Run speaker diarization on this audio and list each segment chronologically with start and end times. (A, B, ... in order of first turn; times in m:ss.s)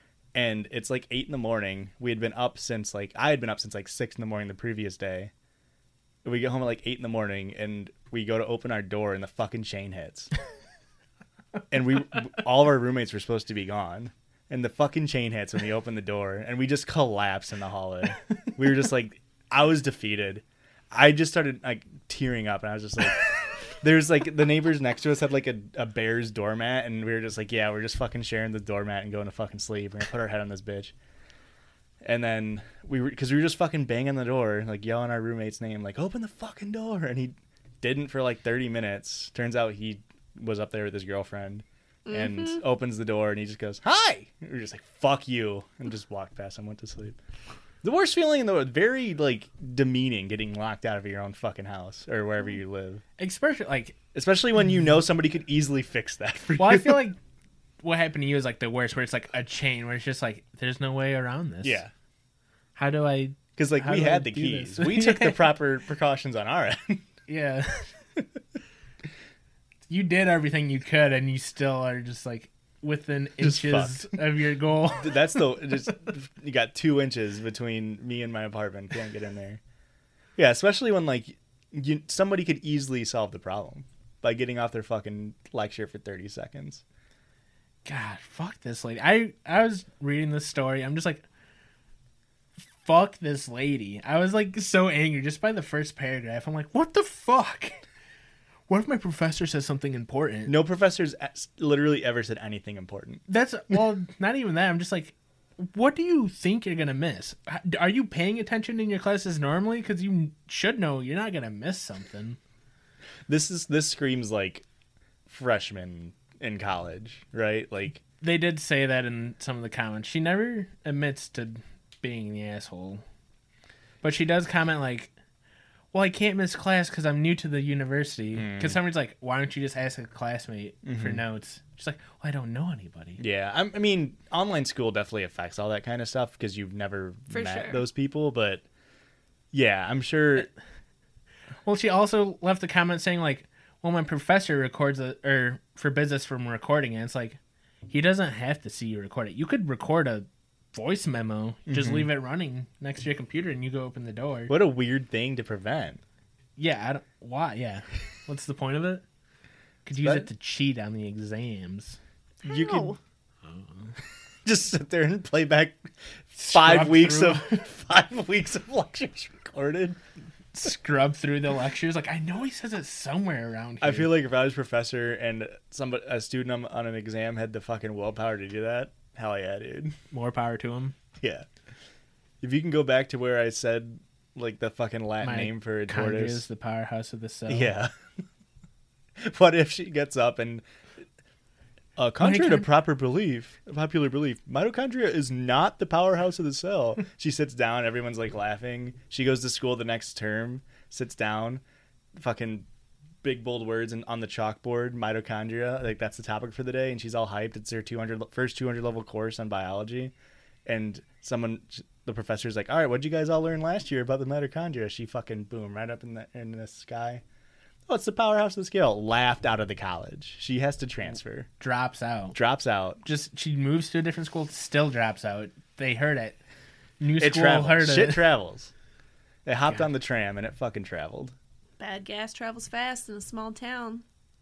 0:00.3-0:05.3 A
0:06.2-0:10.3 A
0:11.7-0:30.9 A
0:32.0-0:47.2 A
0:42.0-0:42.6 B
0:47.8-0:53.0 A
0:53.2-0:54.0 C
0:54.1-0:57.1 A
0:56.6-0:57.2 C
0:57.8-1:01.8 C
1:01.6-1:01.9 A
1:02.8-1:05.5 C
1:03.6-1:07.1 A
1:07.3-1:07.9 C
1:09.9-1:15.3 C
1:13.4-1:14.2 A
1:15.0-1:19.6 A
1:20.4-1:26.8 A
1:27.8-1:31.2 C
1:32.7-1:37.8 C
1:38.7-1:40.6 C
1:40.5-1:43.2 A
1:43.3-1:52.4 C
1:53.3-1:54.6 A
1:55.3-1:58.0 A
1:58.2-2:03.0 C
2:04.0-2:05.1 C
2:05.9-2:13.2 C
2:08.3-2:08.8 A
2:10.8-2:11.2 A
2:13.2-2:18.6 A
2:17.3-2:17.8 B
2:19.5-2:20.5 A
2:21.6-2:34.5 C
2:31.7-2:32.1 A
2:34.5-2:36.0 A
2:36.6-2:39.0 C
2:39.8-2:42.0 C
2:40.0-2:40.3 A
2:42.4-2:42.9 A
2:42.4-2:43.0 B
2:43.4-2:43.9 C
2:44.4-2:45.8 A
2:46.3-2:50.0 A
2:46.4-2:47.6 C
2:50.5-2:54.1 C
2:53.8-3:00.0 A
3:00.1-3:01.0 C
3:01.2-3:01.4 A
3:02.4-3:06.4 A
3:05.2-3:07.7 C
3:07.5-3:07.9 A
3:09.2-3:10.6 A
3:12.0-3:21.6 A
3:12.2-3:12.7 C
3:22.1-3:22.7 A
3:23.2-3:30.1 A
3:30.6-3:37.2 A
3:37.9-3:41.5 A
3:41.6-3:42.4 C
3:42.3-3:43.0 A
3:43.0-3:46.4 C
3:47.0-3:48.3 C
3:47.2-3:48.7 A
3:49.4-3:51.3 A
3:51.8-3:54.0 B